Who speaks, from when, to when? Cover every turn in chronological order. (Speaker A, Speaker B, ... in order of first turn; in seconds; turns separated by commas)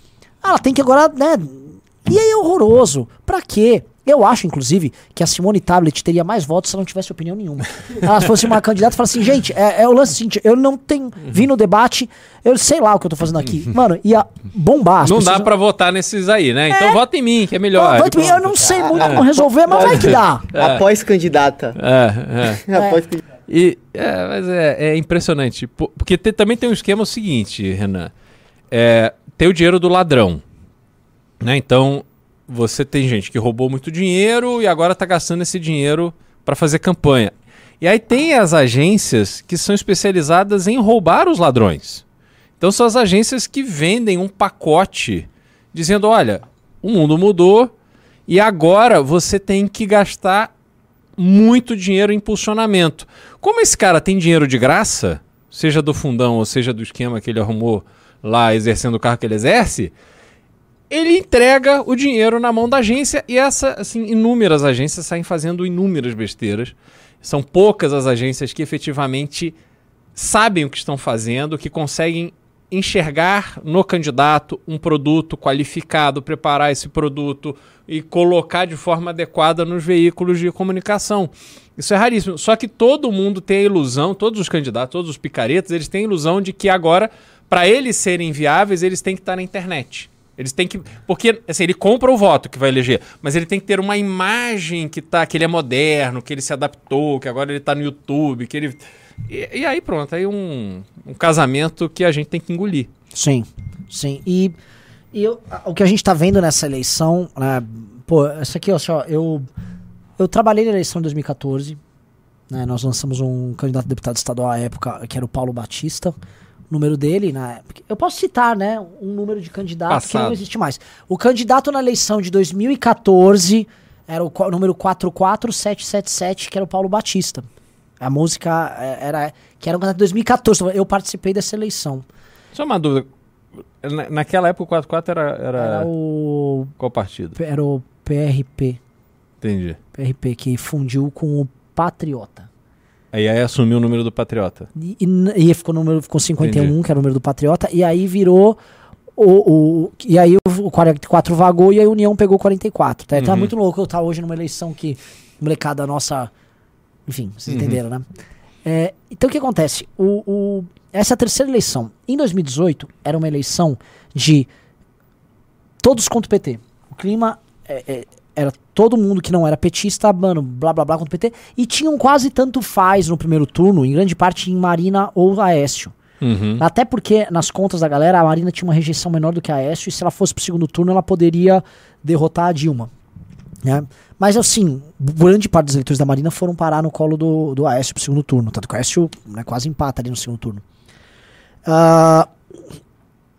Speaker A: 0.4-15.5, Speaker B: 15.0-20.8, Speaker A: 16.7-17.0, Speaker A: 17.7-20.5, Speaker C: 19.0-21.8, Speaker B: 21.8-22.6, Speaker C: 22.7-23.2, Speaker A: 22.7-23.0, Speaker B: 23.5-28.1, Speaker B: 28.7-30.4, Speaker B: 31.4-42.0, Speaker B: 42.6-47.7, Speaker B: 48.3-50.5, Speaker B: 51.2-59.9, Speaker B: 60.9-69.5, Speaker B: 70.2-102.9, Speaker A: 103.1-104.5, Speaker A: 105.1-109.5, Speaker A: 110.2-111.8, Speaker A: 112.5-116.1, Speaker A: 116.7-127.5, Speaker B: 119.9-120.4, Speaker A: 128.0-132.1, Speaker B: 132.5-133.1, Speaker B: 133.8-135.9, Speaker A: 135.6-136.7, Speaker B: 136.8-137.4, Speaker A: 137.3-138.8, Speaker B: 139.4-139.8, Speaker A: 139.9-142.5, Speaker B: 143.1-144.7, Speaker A: 144.8-148.6, Speaker B: 146.4-146.7, Speaker A: 149.2-156.3, Speaker B: 153.1-153.5, Speaker A: 157.1-158.1, Speaker B: 157.5-157.8, Speaker A: 158.6-164.5, Speaker A: 165.8-175.9, Speaker B: 176.2-176.6, Speaker A: 176.6-182.9, Speaker A: 183.6-190.6, Speaker A: 191.6-192.3